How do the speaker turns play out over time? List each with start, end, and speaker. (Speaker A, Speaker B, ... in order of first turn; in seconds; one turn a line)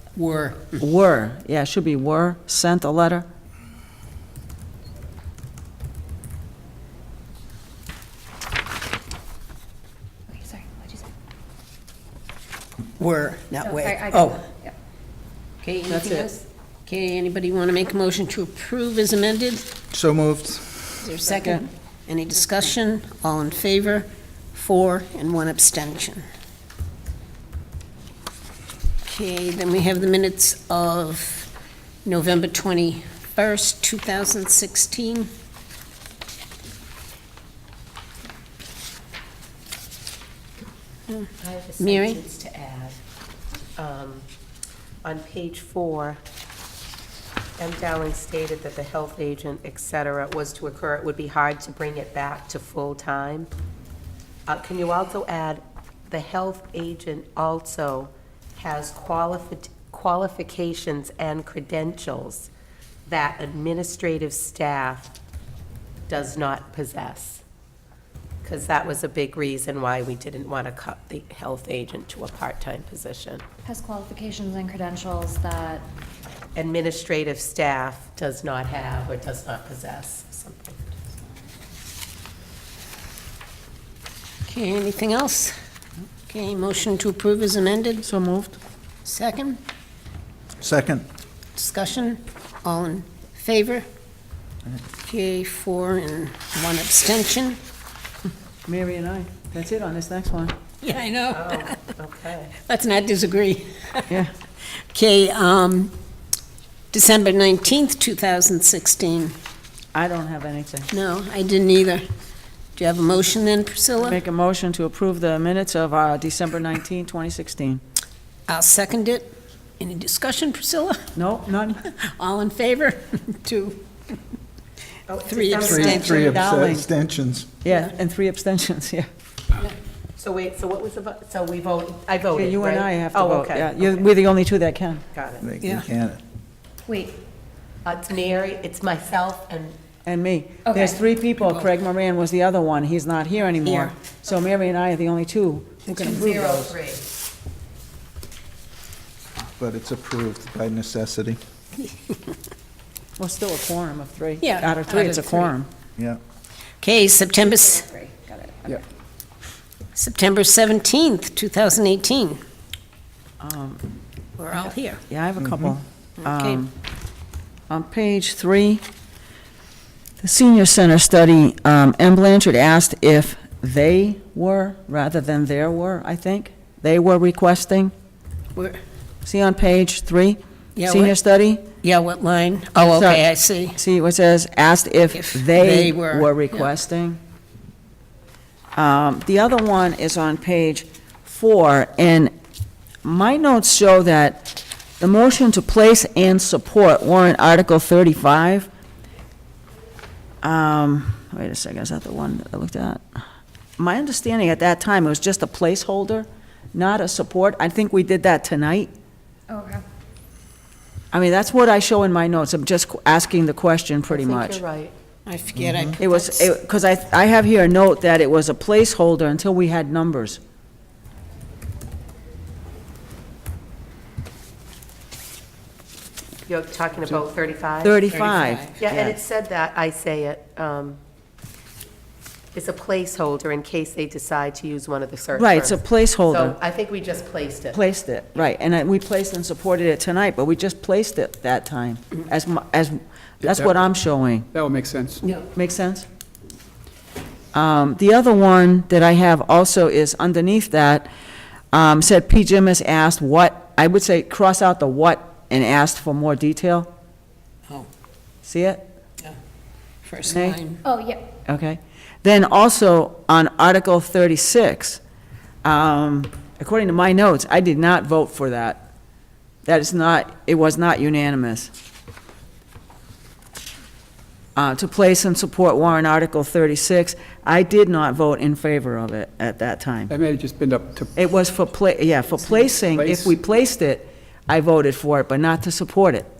Speaker A: 0.1-0.8
Speaker B: 0.7-3.3
Speaker C: 10.3-11.1
Speaker A: 13.0-14.4
Speaker C: 13.6-14.7
Speaker A: 15.6-19.6
Speaker B: 15.9-16.3
Speaker D: 19.9-20.9
Speaker A: 21.0-26.2
Speaker A: 29.0-31.5
Speaker A: 32.0-35.3
Speaker E: 41.4-43.0
Speaker A: 41.8-42.2
Speaker E: 43.8-44.3
Speaker E: 45.0-46.2
Speaker E: 47.6-53.5
Speaker E: 54.5-62.5
Speaker E: 63.0-65.1
Speaker E: 66.1-67.4
Speaker E: 68.4-73.4
Speaker C: 73.7-75.8
Speaker E: 76.5-81.0
Speaker A: 84.5-85.5
Speaker A: 86.3-88.0
Speaker B: 88.0-88.6
Speaker A: 89.0-89.6
Speaker D: 90.6-91.0
Speaker A: 91.5-93.8
Speaker A: 95.0-97.6
Speaker B: 98.7-100.5
Speaker A: 100.8-101.8
Speaker E: 101.3-102.5
Speaker A: 102.6-104.2
Speaker A: 104.9-105.9
Speaker A: 106.9-109.3
Speaker B: 109.9-110.9
Speaker A: 110.9-112.0
Speaker A: 112.7-114.2
Speaker B: 114.0-117.8
Speaker A: 118.5-121.0
Speaker B: 121.1-121.8
Speaker A: 121.8-124.2
Speaker E: 125.1-126.3
Speaker A: 125.2-126.2
Speaker D: 125.6-127.5
Speaker B: 125.9-126.9
Speaker B: 127.6-129.1
Speaker E: 130.2-134.1
Speaker B: 132.3-135.0
Speaker E: 135.1-135.4
Speaker D: 135.4-136.2
Speaker C: 136.9-137.1
Speaker E: 137.8-139.8
Speaker B: 140.0-146.6
Speaker C: 140.7-141.0
Speaker A: 145.8-146.4
Speaker E: 146.0-147.0
Speaker D: 149.6-151.4
Speaker B: 153.2-155.7
Speaker A: 154.4-155.5
Speaker A: 156.8-157.9
Speaker B: 158.3-158.8
Speaker A: 159.9-162.4
Speaker B: 163.4-163.8
Speaker A: 164.4-165.0
Speaker B: 164.6-166.7
Speaker D: 165.4-165.7
Speaker A: 166.2-166.6
Speaker B: 167.7-168.8
Speaker B: 170.2-177.9
Speaker B: 179.2-181.6
Speaker A: 180.8-181.2
Speaker A: 181.8-183.8
Speaker B: 182.8-187.2
Speaker A: 185.1-186.7
Speaker B: 188.7-192.3
Speaker B: 193.0-198.7
Speaker B: 200.4-203.0
Speaker B: 203.8-208.9
Speaker C: 209.5-209.8
Speaker B: 211.1-214.6
Speaker E: 214.1-214.9
Speaker A: 215.2-216.5
Speaker D: 215.6-215.9
Speaker B: 216.0-220.4
Speaker E: 226.5-228.0
Speaker B: 227.8-229.2
Speaker A: 228.1-228.7
Speaker E: 228.8-231.0
Speaker E: 232.5-237.8
Speaker B: 235.3-236.6
Speaker B: 237.7-244.5
Speaker F: 243.4-243.8
Speaker F: 244.5-245.2
Speaker B: 245.5-246.1
Speaker B: 247.5-251.1
Speaker B: 251.7-256.9
Speaker B: 258.4-258.9
Speaker A: 260.0-260.8
Speaker B: 260.3-260.6
Speaker C: 260.8-261.2
Speaker B: 261.5-265.0
Speaker B: 265.6-268.8
Speaker B: 269.6-271.7
Speaker B: 274.6-280.1
Speaker F: 280.1-281.1
Speaker B: 281.1-286.3
Speaker F: 282.9-283.4